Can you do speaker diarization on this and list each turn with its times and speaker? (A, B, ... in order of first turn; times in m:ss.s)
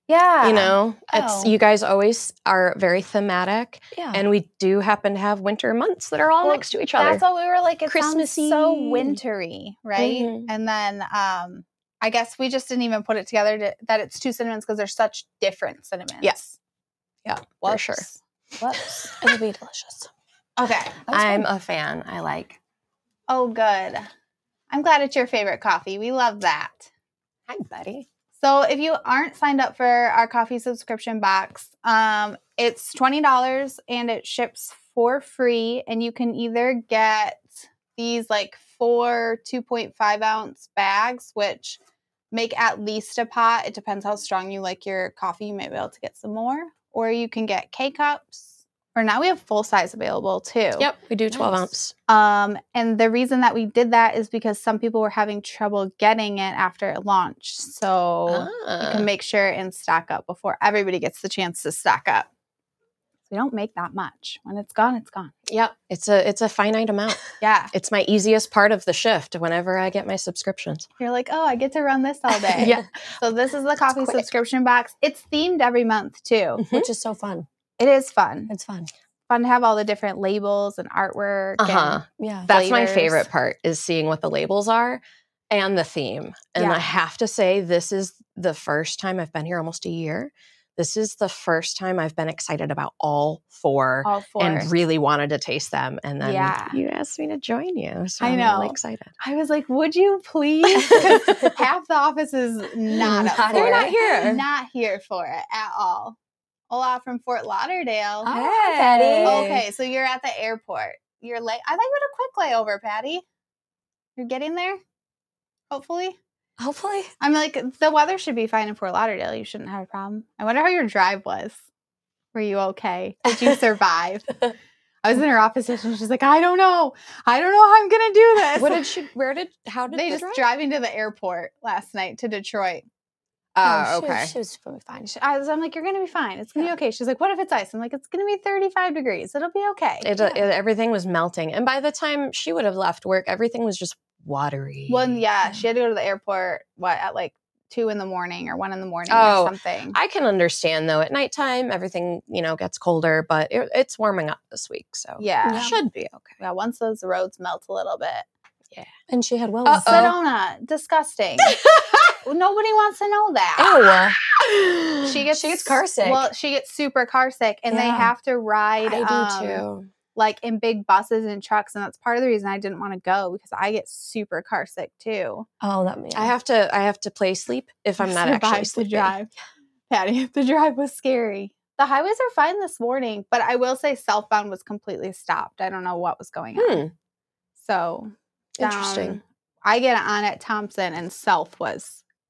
0:00.1-0:01.5 A
0:00.4-0:07.2 B
0:03.9-0:04.2 C
0:06.4-0:16.6 A
0:07.9-0:09.2 B
0:10.0-0:10.5 B
0:17.3-0:18.0 B
0:17.4-0:19.1 A
0:18.8-0:19.3 B
0:19.2-0:20.1 C
0:20.6-0:21.1 A
0:21.1-0:21.5 C
0:21.1-0:22.6 B
0:23.3-0:24.1 A
0:24.7-0:26.9 A
0:27.5-0:28.1 B
0:28.4-0:41.8 A
0:42.3-0:50.9 A
0:50.8-0:51.9 B
0:51.3-0:51.7 C
0:52.1-1:02.3 A
0:58.3-0:59.1 B
1:03.3-1:05.3 A
1:05.5-1:10.9 B
1:07.4-1:07.7 A
1:11.0-1:16.6 A
1:12.6-1:12.8 C
1:12.6-1:12.8 B
1:16.6-1:16.9 B
1:16.7-1:17.5 C
1:17.8-1:18.5 A
1:18.5-1:18.9 C
1:19.3-1:23.3 A
1:21.6-1:39.1 B
1:22.2-1:22.5 C
1:26.6-1:26.9 A
1:34.0-1:34.7 A
1:36.2-1:36.8 A
1:38.2-1:46.2 A
1:40.9-1:41.6 B
1:41.0-1:41.5 C
1:43.0-1:44.2 C
1:43.5-1:44.4 B
1:46.7-1:53.2 A
1:48.2-1:49.6 C
1:49.0-1:49.6 B
1:54.2-1:54.8 A
1:55.7-1:56.2 A
1:56.6-1:57.1 C
1:57.2-2:01.6 A
2:02.3-2:04.4 A
2:05.0-2:09.0 A
2:08.5-2:10.5 B
2:09.9-2:12.8 A
2:13.6-2:14.3 B
2:13.6-2:15.1 C
2:15.1-2:20.1 A
2:20.0-2:25.2 B
2:20.2-2:20.5 C
2:24.9-2:30.0 A
2:29.1-2:36.4 B
2:35.2-2:38.3 A
2:35.5-2:35.8 C
2:39.1-2:40.1 C
2:39.6-2:40.2 B
2:39.8-2:41.6 A
2:41.4-2:42.2 B
2:42.2-2:43.8 A
2:43.6-2:44.2 C
2:43.8-2:45.1 B
2:45.0-2:49.6 A
2:45.3-2:46.3 C
2:47.7-2:48.1 C
2:48.9-2:49.9 B
2:50.2-2:55.5 A
2:55.6-2:56.3 C
2:56.2-2:59.1 B
2:58.0-2:59.3 A
2:59.9-3:06.8 A
3:06.6-3:06.9 B
3:07.6-3:12.0 A
3:08.6-3:09.2 B